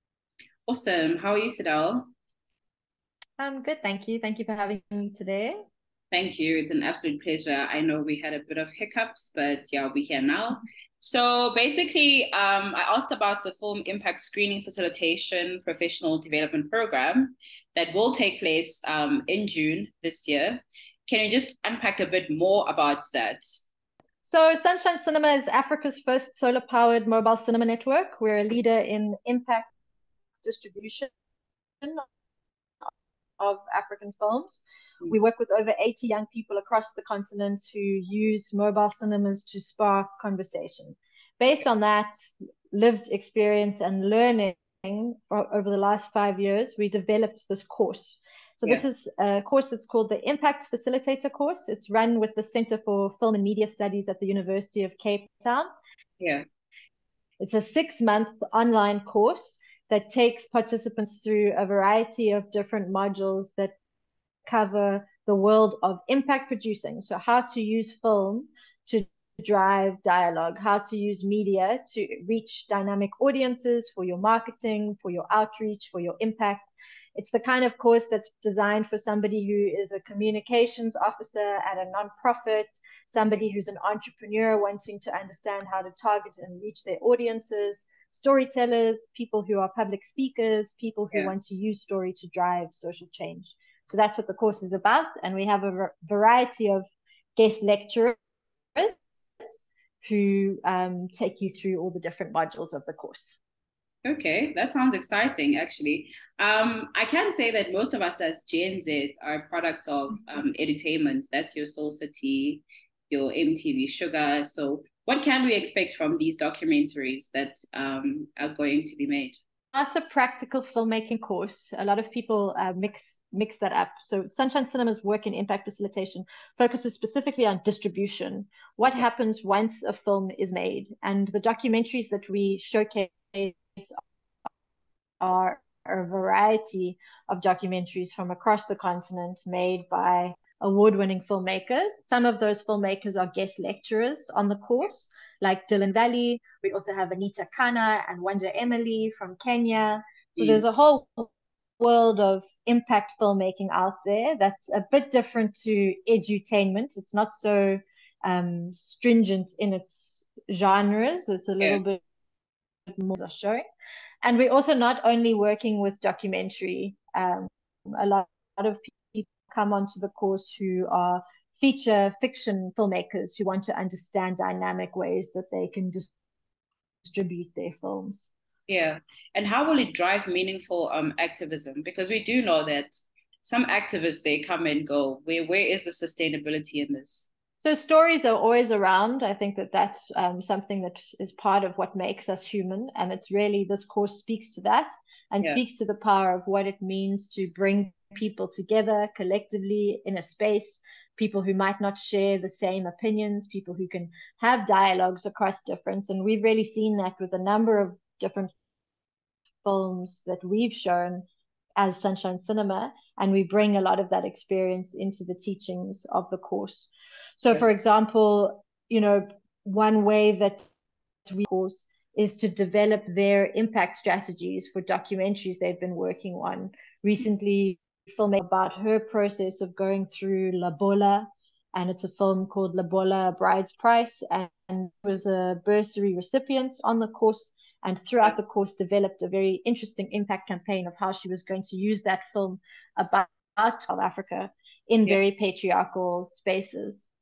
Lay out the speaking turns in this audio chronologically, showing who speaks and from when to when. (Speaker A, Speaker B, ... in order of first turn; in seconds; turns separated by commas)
Speaker A: 0.7-2.1, Speaker B: 3.4-5.6, Speaker A: 6.1-23.4, Speaker B: 24.2-29.7, Speaker B: 30.4-31.1, Speaker B: 33.4-55.6, Speaker A: 56.2-56.4, Speaker B: 57.4-63.7, Speaker B: 64.5-98.2, Speaker B: 99.6-103.4, Speaker A: 104.0-119.4, Speaker B: 119.7-134.0, Speaker B: 135.2-162.0, Speaker B: 162.9-163.6, Speaker B: 164.2-176.1, Speaker B: 177.0-178.3, Speaker A: 178.7-187.3, Speaker B: 187.6-208.5, Speaker B: 209.6-211.2, Speaker B: 211.8-220.7, Speaker B: 221.2-247.1